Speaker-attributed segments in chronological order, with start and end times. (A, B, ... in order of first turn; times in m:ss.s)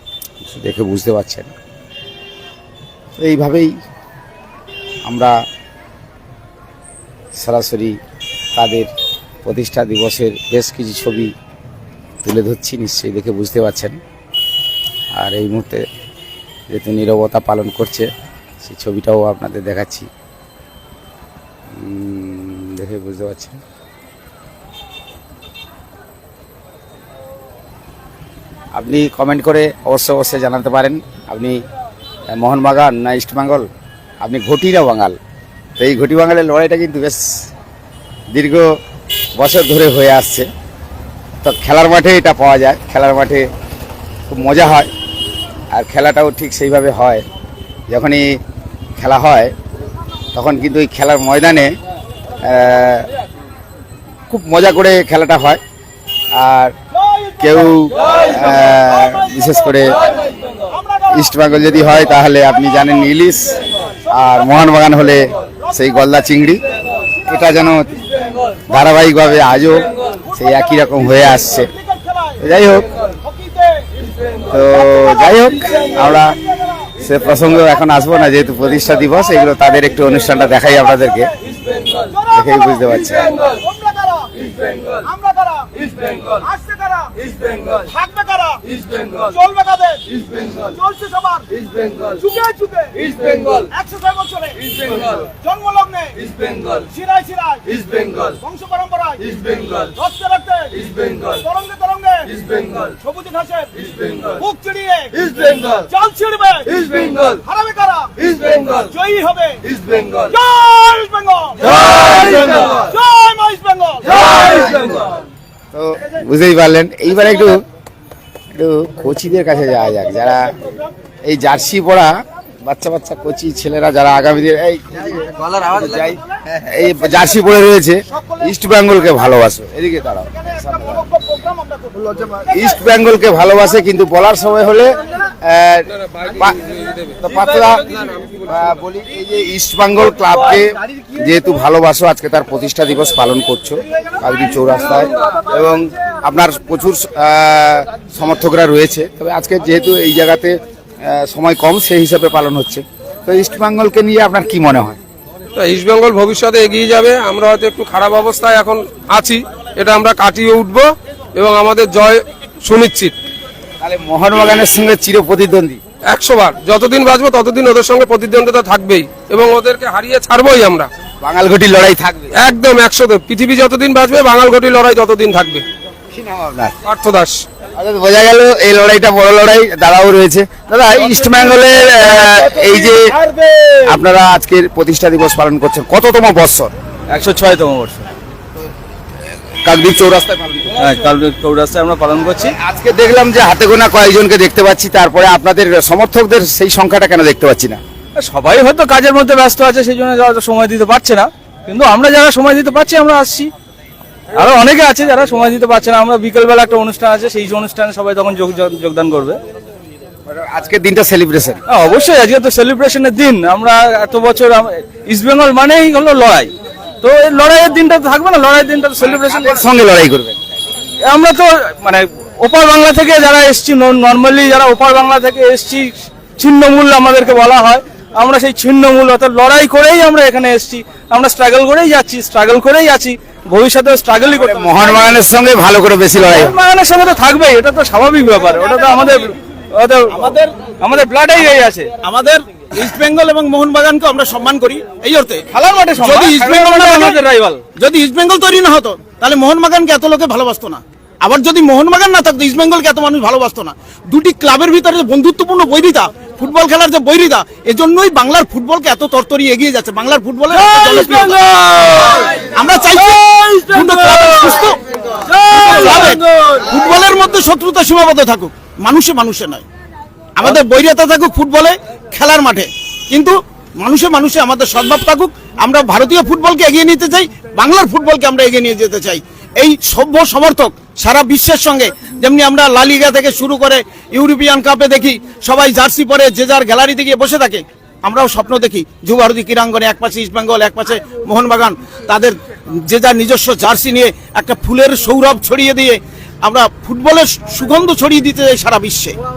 0:00.4-0:01.5 A
0:03.2-0:03.7 A
0:05.0-0:05.4 A
0:07.4-0:08.0 A
0:08.6-0:08.9 A
0:09.4-0:11.3 A
0:12.2-0:14.0 A
0:15.2-0:15.8 A
0:16.7-0:18.1 A
0:18.6-0:20.1 A
0:21.7-0:23.6 A
0:28.7-0:31.6 A
0:32.3-0:33.7 A
0:34.2-0:35.2 A
0:35.8-0:37.5 A
0:38.3-0:38.7 A
0:39.4-0:40.5 A
0:41.4-0:43.5 A
0:44.3-0:44.9 A
0:45.7-0:47.2 A
0:47.9-0:48.4 A
0:49.0-0:49.5 A
0:50.3-0:51.7 A
0:52.4-0:53.1 A
0:54.3-0:55.6 A
0:56.3-0:56.7 A
0:57.4-1:00.0 A
1:01.1-1:06.6 A
1:07.3-1:07.9 A
1:08.7-1:11.7 A
1:12.4-1:12.9 A
1:14.5-1:16.4 A
1:17.0-1:21.3 A
1:22.3-1:23.3 A
1:23.4-1:24.3 B
1:24.9-1:55.0 B
1:55.7-1:57.6 A
1:58.5-2:00.5 A
2:01.2-2:11.1 A
2:11.3-2:12.1 B
2:12.4-2:16.6 A
2:16.8-2:17.1 C
2:17.2-2:35.0 A
2:35.6-2:43.2 C
2:43.8-2:45.8 A
2:46.1-2:50.9 C
2:51.2-2:52.3 A
2:52.4-2:55.6 C
2:56.1-2:56.8 A
2:56.9-2:57.4 C
2:57.8-3:03.0 A
3:02.2-3:04.0 D
3:03.9-3:06.7 A
3:07.1-3:08.1 D
3:09.7-3:10.8 A
3:10.8-3:12.5 D
3:12.6-3:17.8 A
3:18.2-3:23.5 D
3:24.4-3:29.4 D
3:30.3-3:31.6 A
3:31.7-3:39.6 D
3:39.0-3:40.4 A
3:41.0-3:54.7 D
3:54.3-3:56.6 A
3:56.2-4:01.9 D
4:00.1-4:00.5 B
4:02.0-4:05.5 B
4:05.5-4:07.6 D
4:06.0-4:07.2 B
4:07.8-4:21.5 B
4:20.6-4:22.5 D
4:22.5-4:24.8 B
4:23.0-4:24.6 D
4:25.3-4:26.6 D
4:25.5-4:29.6 B
4:30.4-4:59.2 B